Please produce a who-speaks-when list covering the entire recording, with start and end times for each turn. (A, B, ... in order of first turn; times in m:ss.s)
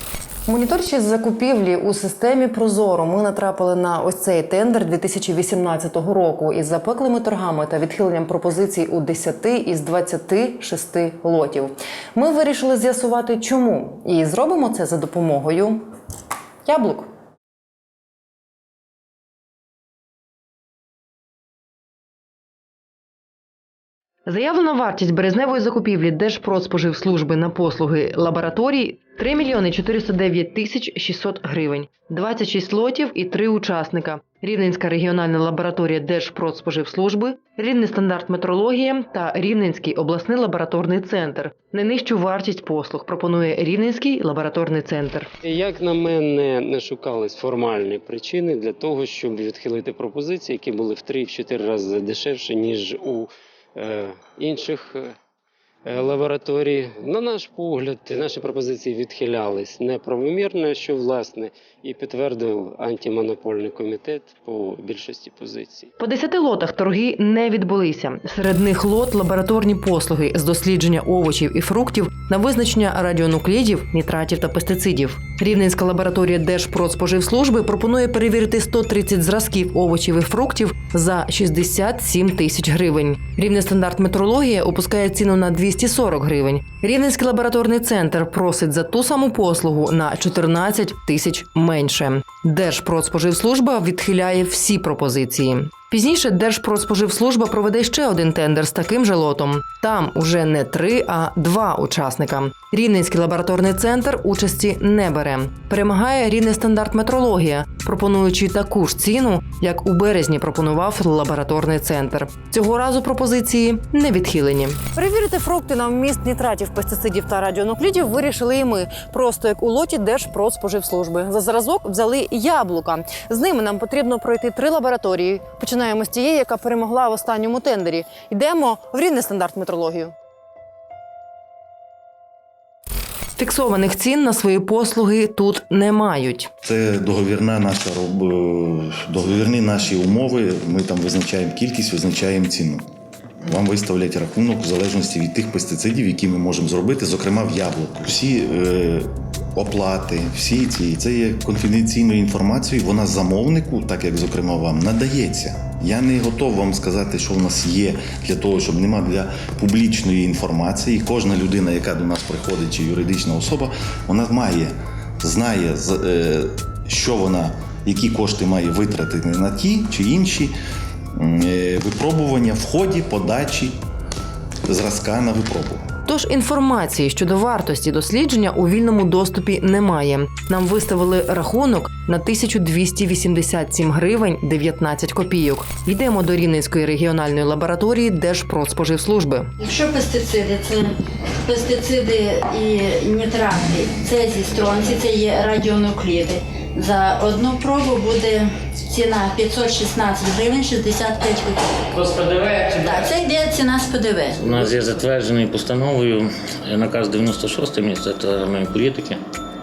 0:00.5-0:15.8 A
0:16.6-0:17.1 A
0:24.2-0:45.3 A
0:45.4-0:55.1 B
0:55.8-1:05.9 B
1:06.0-2:10.1 A
2:13.4-2:16.5 A
2:16.6-2:22.8 C
2:23.4-2:50.5 C
2:51.1-2:53.8 C
2:54.7-2:55.8 C
2:56.0-3:09.5 A
3:09.6-3:21.7 D
3:21.9-3:23.5 E
3:22.8-3:24.4 D
3:24.4-3:29.2 E